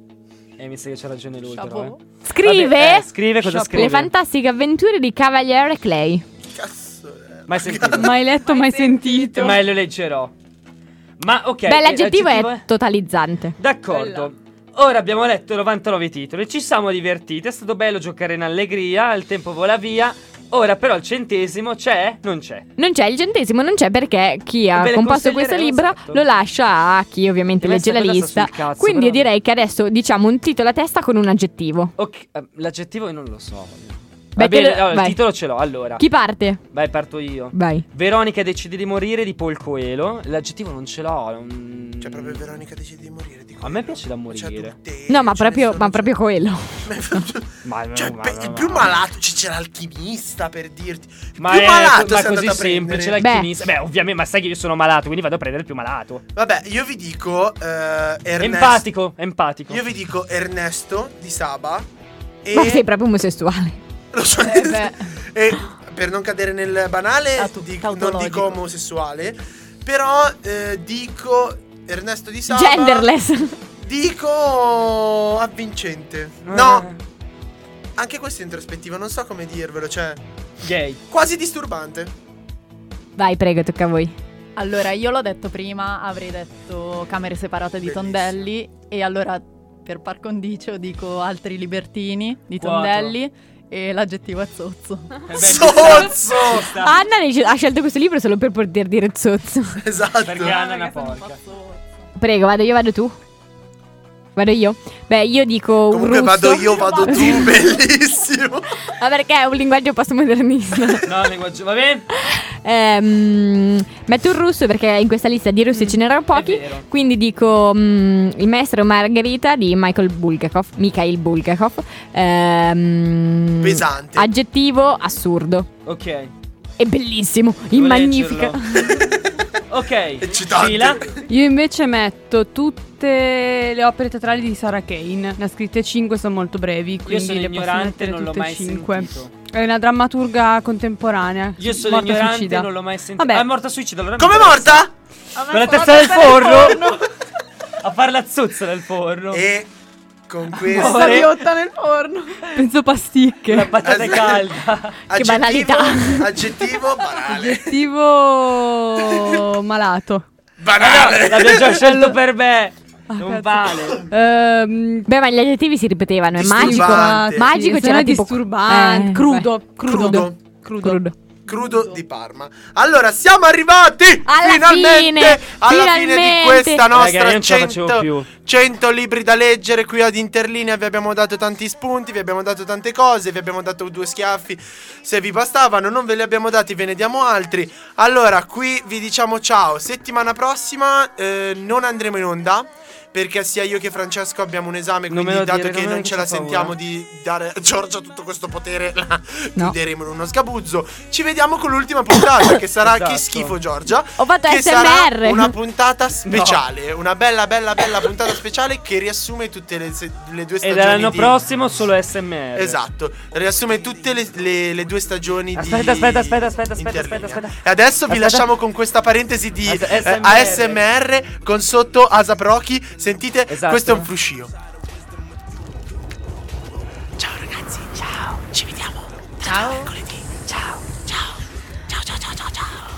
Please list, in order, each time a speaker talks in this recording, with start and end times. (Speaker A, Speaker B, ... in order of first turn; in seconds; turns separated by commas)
Speaker A: 0.6-4.1, Speaker B: 1.5-2.0, Speaker C: 2.2-3.1, Speaker D: 3.5-3.9, Speaker C: 3.7-6.2, Speaker E: 6.5-8.2, Speaker A: 7.5-8.2, Speaker D: 7.9-9.6, Speaker B: 8.3-9.4, Speaker A: 9.3-10.3, Speaker A: 11.2-12.6, Speaker C: 11.7-13.6, Speaker A: 13.6-22.7, Speaker D: 13.9-14.3, Speaker C: 22.8-31.9, Speaker A: 24.7-26.2, Speaker A: 27.6-29.3, Speaker A: 32.0-36.0, Speaker C: 34.4-35.2, Speaker C: 36.0-36.6, Speaker A: 36.7-42.6, Speaker C: 37.5-37.8, Speaker E: 42.0-46.1, Speaker A: 43.6-44.8, Speaker C: 45.1-47.2, Speaker E: 46.8-53.2, Speaker A: 47.6-49.0, Speaker A: 51.4-56.2, Speaker C: 53.2-53.5, Speaker E: 56.3-58.8, Speaker A: 58.4-59.8, Speaker E: 59.7-61.9, Speaker E: 62.4-62.8, Speaker C: 62.5-63.8, Speaker E: 64.1-73.1, Speaker B: 64.4-65.1, Speaker B: 67.4-68.6, Speaker C: 72.5-73.5, Speaker E: 73.8-76.9, Speaker A: 76.5-77.0, Speaker E: 78.0-80.2, Speaker A: 80.6-81.0, Speaker E: 81.1-82.1, Speaker C: 83.2-84.1, Speaker B: 84.5-95.3, Speaker E: 87.8-88.4, Speaker A: 92.6-93.2, Speaker A: 95.3-96.9, Speaker E: 95.3-96.7, Speaker C: 96.5-99.8, Speaker E: 99.8-100.6, Speaker A: 100.2-101.4, Speaker B: 100.4-102.0, Speaker C: 102.2-103.1, Speaker C: 104.3-107.5, Speaker E: 105.9-108.8, Speaker B: 106.7-107.0, Speaker C: 109.0-111.1, Speaker A: 111.0-112.0, Speaker C: 112.1-125.7, Speaker A: 116.3-116.9, Speaker E: 123.6-124.3, Speaker A: 125.8-126.3, Speaker C: 126.8-129.0, Speaker A: 127.7-128.6, Speaker E: 128.8-129.4, Speaker A: 129.7-131.0, Speaker E: 130.2-131.2, Speaker D: 131.3-143.5, Speaker A: 137.1-139.3, Speaker A: 141.6-144.8, Speaker E: 144.2-144.9, Speaker B: 145.3-147.1, Speaker A: 145.5-147.0, Speaker A: 147.8-149.4, Speaker E: 149.3-149.7, Speaker E: 150.3-151.3, Speaker A: 150.6-151.3, Speaker B: 150.7-152.5, Speaker D: 152.5-153.8, Speaker A: 153.5-155.0, Speaker E: 153.8-154.5, Speaker E: 155.1-157.8, Speaker C: 155.1-156.4, Speaker D: 157.3-160.2, Speaker E: 159.1-159.4, Speaker E: 160.6-162.0, Speaker A: 160.8-164.0, Speaker D: 161.8-162.2, Speaker D: 163.1-165.1, Speaker C: 165.1-171.1, Speaker E: 166.3-167.5, Speaker D: 166.6-171.0, Speaker E: 169.9-170.4, Speaker E: 171.5-211.4, Speaker C: 174.2-176.8, Speaker A: 176.9-178.3, Speaker A: 195.1-196.7, Speaker A: 202.8-203.6, Speaker C: 204.2-205.5, Speaker A: 206.3-206.6, Speaker A: 210.6-212.8, Speaker E: 212.6-224.5, Speaker A: 215.6-218.5, Speaker A: 219.7-220.8, Speaker A: 223.5-224.1, Speaker E: 227.2-230.4, Speaker B: 229.4-229.9, Speaker A: 230.5-230.8, Speaker E: 231.9-232.8